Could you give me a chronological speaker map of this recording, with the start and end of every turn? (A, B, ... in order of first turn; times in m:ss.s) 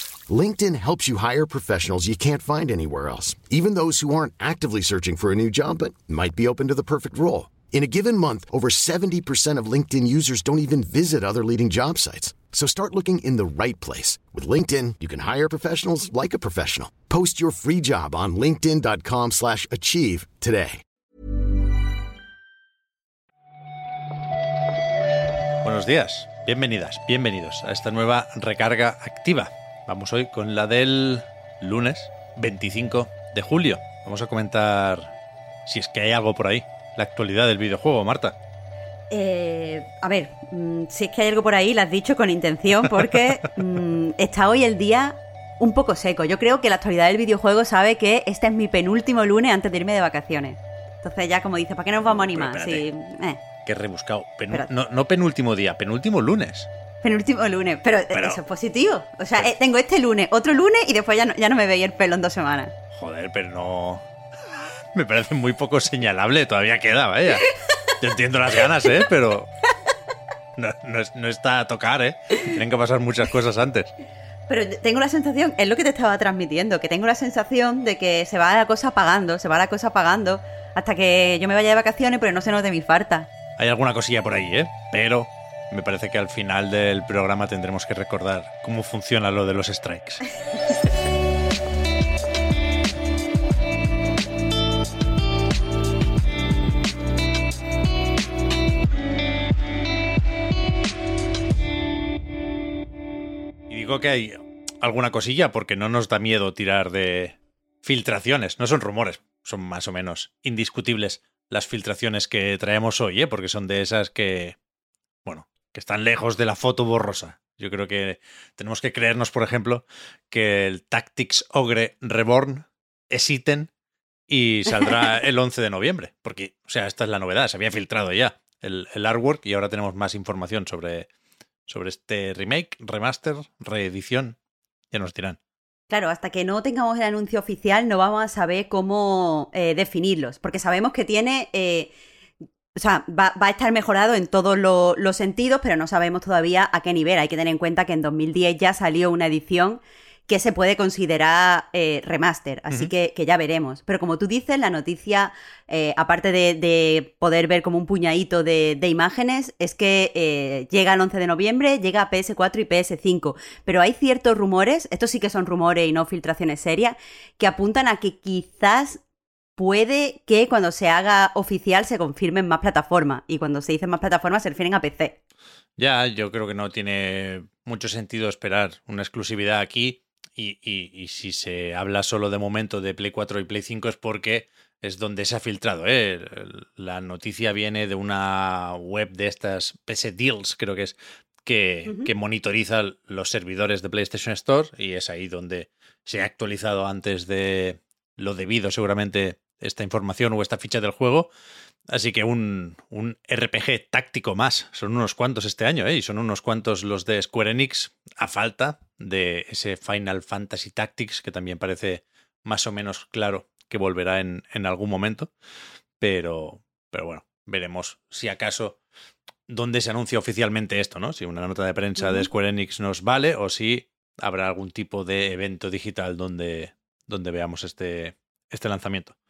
0:00.3-0:20.8 A
0:25.6-0:35.1 B
0:35.7-0:38.4 B
0:39.1-0:53.4 C
0:52.0-0:52.9 B
0:53.6-0:56.7 B
0:57.0-1:02.7 C
0:58.1-0:58.4 B
1:02.9-1:04.0 B
1:04.9-1:07.5 B
1:08.0-1:09.5 B
1:10.6-1:13.9 B
1:14.5-1:23.3 C
1:23.6-1:30.2 B
1:43.7-1:54.6 B
1:55.3-2:03.7 B
2:04.3-2:11.1 B
2:11.7-2:14.4 B
2:14.9-2:15.4 B
2:15.9-2:21.9 C
2:22.8-2:49.0 C
2:49.6-2:55.2 C
2:55.8-3:21.3 B
3:21.9-3:35.3 B
3:36.0-3:38.8 B
3:39.5-3:49.1 B
3:42.0-3:42.3 C